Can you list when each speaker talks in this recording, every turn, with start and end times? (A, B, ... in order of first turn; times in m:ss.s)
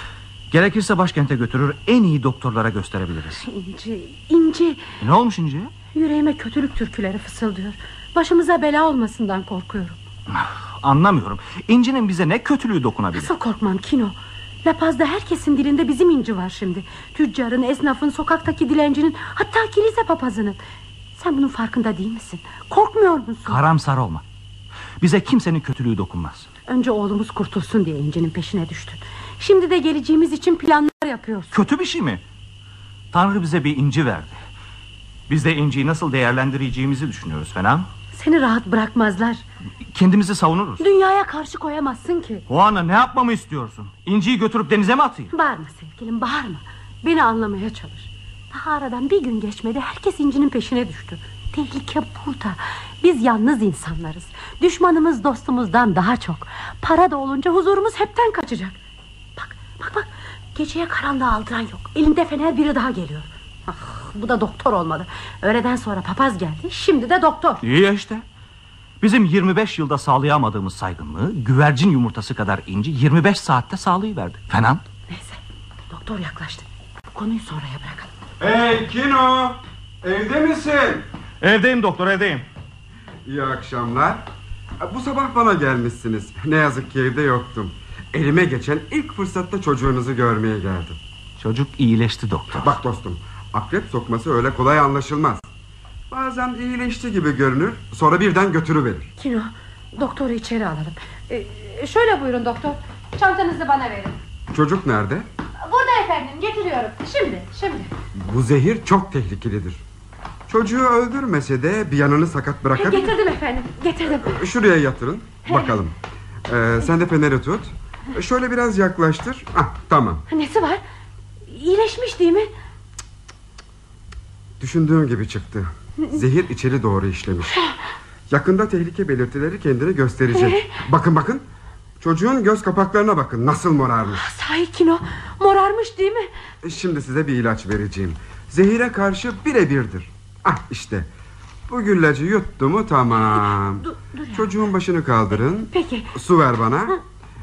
0:00.5-0:03.4 A
0:03.4-0:04.8 B
0:05.0-0:05.7 A
0:05.9-0:10.0 B
0:10.3-0:13.3 A
0:13.1-0:20.6 B
0:21.2-0:23.6 B
0:23.4-0:24.2 A
0:25.0-0:26.5 A
0:26.7-0:31.5 B
0:31.5-0:32.2 A
0:33.1-0:34.4 A
0:35.3-0:37.9 A
0:38.1-0:39.4 B
0:39.9-0:40.8 A
0:40.8-0:42.4 B
0:42.5-0:45.3 A
0:45.3-0:58.8 B
0:59.4-1:07.6 B
1:07.6-1:08.2 A
1:09.0-1:14.8 A
1:15.1-1:18.1 B
1:18.4-1:21.0 C
1:21.4-1:22.4 A
1:23.2-1:24.2 C
1:24.8-1:31.0 C
1:31.4-1:32.8 A
1:32.6-1:35.4 C
1:36.1-1:39.1 C
1:39.2-1:44.2 B
1:44.5-1:45.2 C
1:45.6-1:47.9 B
1:48.2-1:49.8 C
1:50.5-1:53.1 C
1:52.8-1:54.4 B
1:54.2-1:55.9 C
1:55.4-1:55.8 B
1:56.5-2:00.2 C
2:00.3-2:00.8 B
2:01.5-2:02.5 B
2:04.6-2:07.6 C
2:07.5-2:07.7 B
2:08.3-2:11.4 C
2:10.3-2:10.7 B
2:12.0-2:14.2 C
2:14.1-2:16.3 B
2:16.6-2:21.1 C
2:21.7-2:27.0 C
2:23.3-2:24.5 B
2:25.7-2:26.1 B